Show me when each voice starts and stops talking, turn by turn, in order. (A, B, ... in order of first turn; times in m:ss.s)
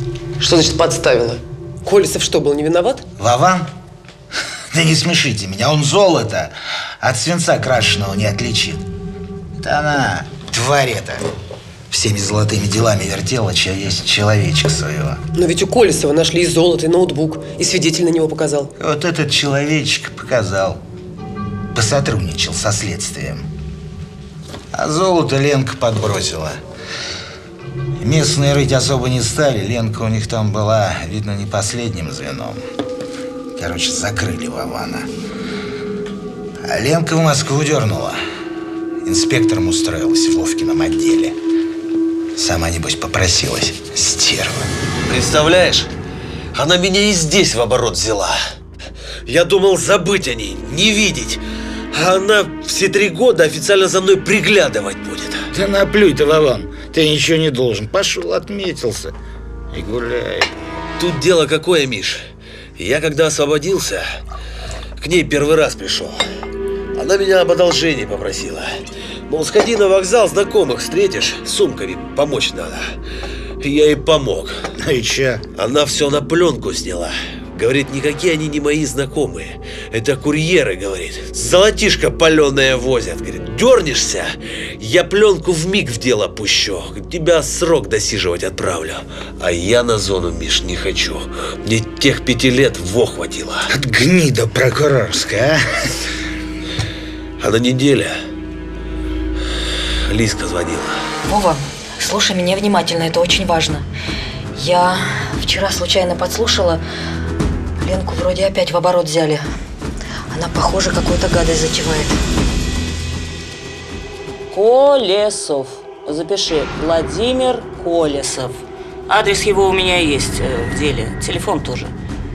0:00.4-0:03.1 A
0:03.2-0:03.7 B
0:04.7-0:08.9 B
0:09.6-0:11.3 B
0:11.9-0:15.2 B
0:15.4-0:18.7 A
0:18.8-0:20.8 B
0:21.7-0:23.5 B
0:24.7-0:26.6 B
0:28.0-0:32.6 B
0:33.6-0:35.1 B
0:36.6-0:38.2 B
0:39.0-0:41.4 B
0:42.4-0:44.7 B
0:45.1-0:45.9 C
0:46.6-0:48.4 C
0:49.3-0:55.5 C
0:55.5-0:59.1 B
0:59.7-1:00.5 B
1:01.0-1:02.2 C
1:02.8-1:04.0 C
1:05.0-1:06.2 C
1:07.0-1:08.7 C
1:09.3-1:12.8 C
1:13.6-1:14.6 C
1:14.8-1:15.4 B
1:15.6-1:33.7 C
1:33.7-1:35.6 B
1:37.4-1:38.2 C
1:40.1-1:41.0 C
1:41.3-1:43.9 D
1:44.5-1:46.8 D
1:47.8-1:49.4 D
1:50.3-1:52.2 D
1:54.5-2:01.9 E